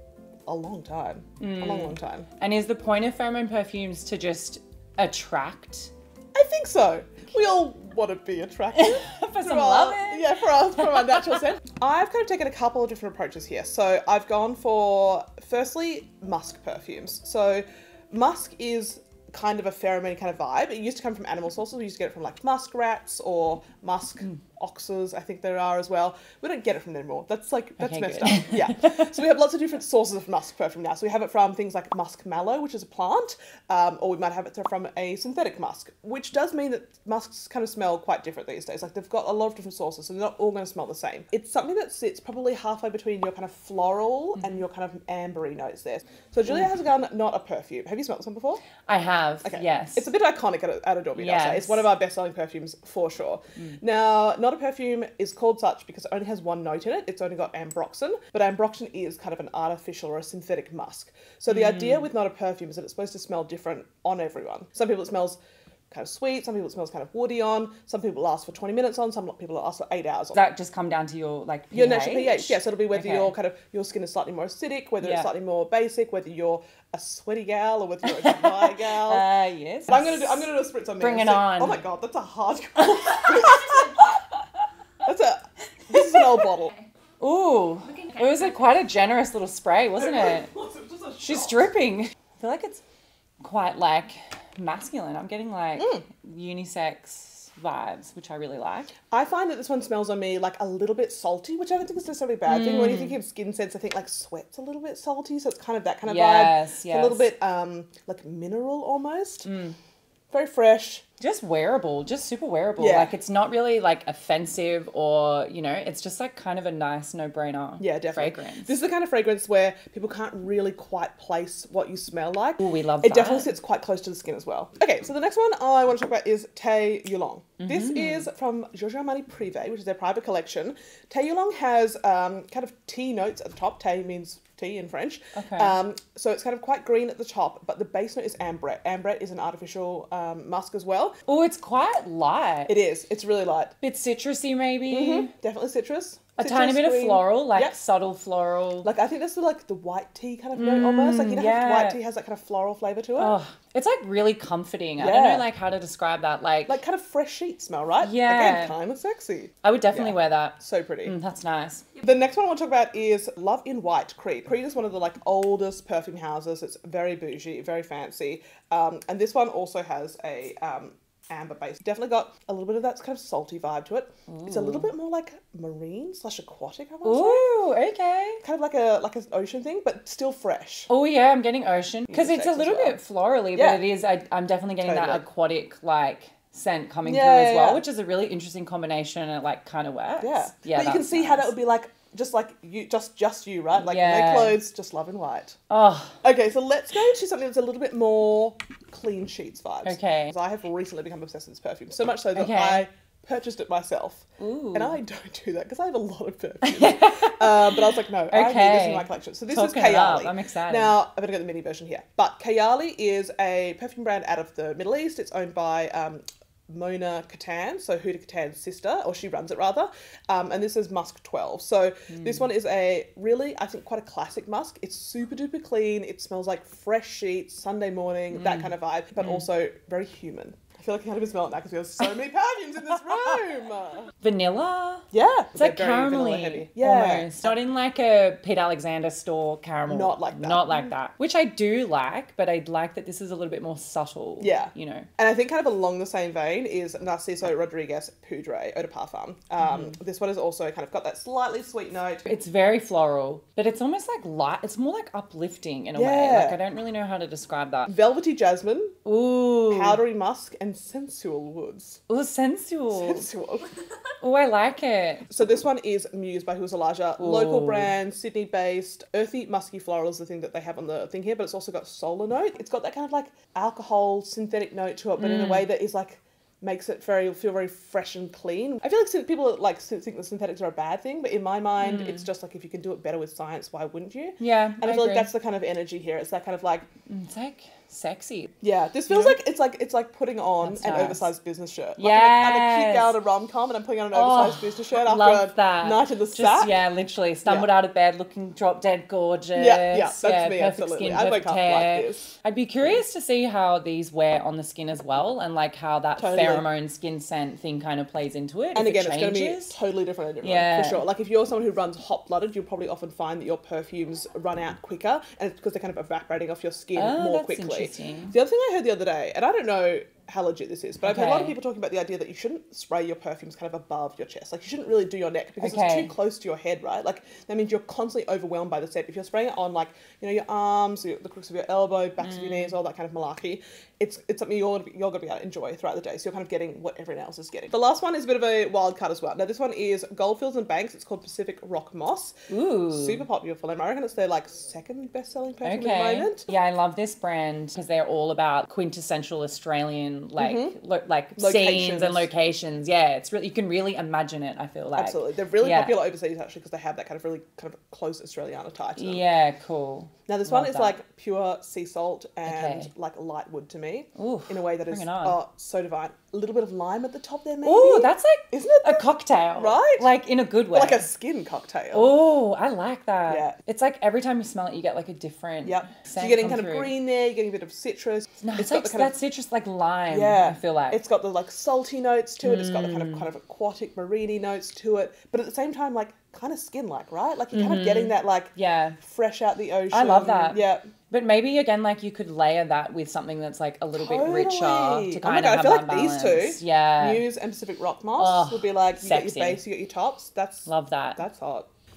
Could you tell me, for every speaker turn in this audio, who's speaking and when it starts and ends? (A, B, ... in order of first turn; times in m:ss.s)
0:00.4-0:02.3 A
0:01.4-0:05.9 B
0:06.3-0:48.6 A
0:08.7-0:11.2 B
0:27.8-0:29.1 B
0:48.9-0:50.1 B
0:49.4-1:05.4 A
0:51.2-0:51.9 B
1:01.5-1:02.0 B
1:05.9-1:10.4 A
1:10.3-1:13.3 B
1:11.7-1:19.2 A
1:15.0-1:15.3 B
1:18.2-1:21.8 B
1:19.9-1:24.2 A
1:25.0-1:26.7 A
1:27.2-1:30.5 B
1:30.0-1:31.6 A
1:31.2-1:32.8 B
1:33.4-1:38.9 B
1:35.8-1:36.0 A
1:39.1-1:49.5 A
1:42.4-1:43.2 B
1:46.0-1:47.3 B
1:49.4-1:49.8 B
1:50.3-1:51.0 A
1:51.2-1:58.7 B
1:52.8-1:53.1 A
1:57.8-2:21.2 A
2:02.6-2:03.5 B
2:07.6-2:08.2 B
2:15.3-2:15.7 B
2:21.3-2:22.7 B
2:22.7-2:23.7 A
2:23.8-2:25.3 B
2:24.9-2:27.7 A
2:26.4-2:28.9 B
2:28.8-2:33.4 A
2:30.5-2:32.0 B
2:33.2-2:36.8 B
2:35.0-2:35.5 A
2:36.7-2:41.1 A
2:38.0-2:38.8 B
2:39.6-2:41.8 B
2:42.0-2:57.5 A
2:54.3-2:54.8 B
2:57.0-2:58.4 B
2:58.4-3:00.9 A
3:00.9-3:11.5 B
3:02.1-3:03.0 A
3:03.5-3:03.9 A
3:04.8-3:05.2 A
3:07.0-3:07.8 A
3:10.2-3:15.6 A
3:13.8-3:14.6 B
3:15.7-3:16.2 B
3:16.2-3:54.1 A
3:19.8-3:20.3 B
3:22.3-3:22.8 B
3:24.4-3:25.0 B
3:26.6-3:27.7 B
3:28.3-3:30.9 B
3:48.3-3:48.7 B
3:54.2-4:05.1 B
3:55.1-3:57.5 A
3:59.9-4:00.9 A
4:04.4-4:12.2 A
4:09.6-4:09.9 B
4:12.2-4:17.9 B
4:15.9-4:16.6 A
4:17.9-4:19.0 A
4:19.0-4:20.0 B
4:19.7-4:22.0 A
4:22.1-4:23.2 B
4:22.9-4:23.7 A
4:24.2-4:25.3 B
4:25.3-4:46.9 A
4:27.2-4:27.9 B
4:35.2-4:35.6 B
4:41.8-4:42.2 B
4:44.4-4:45.3 B
4:47.1-4:48.5 B
4:48.6-4:56.8 A
4:49.1-4:49.4 B
4:50.6-4:51.3 B
4:52.0-4:53.1 B
4:54.1-5:09.8 B
4:59.5-5:02.3 A
5:06.2-5:06.6 A
5:08.7-5:42.3 A
5:10.4-5:11.0 B
5:16.9-5:18.3 B
5:21.0-5:21.5 B
5:25.6-5:26.1 B
5:42.5-5:43.2 B
5:42.9-5:46.5 A
5:45.6-5:56.0 B
5:50.4-5:50.8 A
5:51.4-5:52.3 A
5:55.0-5:59.2 A
5:59.0-6:00.9 B
6:00.3-6:10.0 A
6:02.4-6:02.9 B
6:04.2-6:05.4 B
6:07.6-6:11.0 B
6:10.7-6:12.2 A
6:11.9-6:16.9 B
6:13.3-6:13.5 A
6:15.6-6:19.1 A
6:18.4-6:21.0 B
6:20.1-6:30.8 A
6:22.4-6:23.2 B
6:27.5-6:29.0 B
6:29.9-6:37.2 B
6:33.9-6:41.7 A
6:38.2-6:39.6 B
6:40.6-6:41.2 B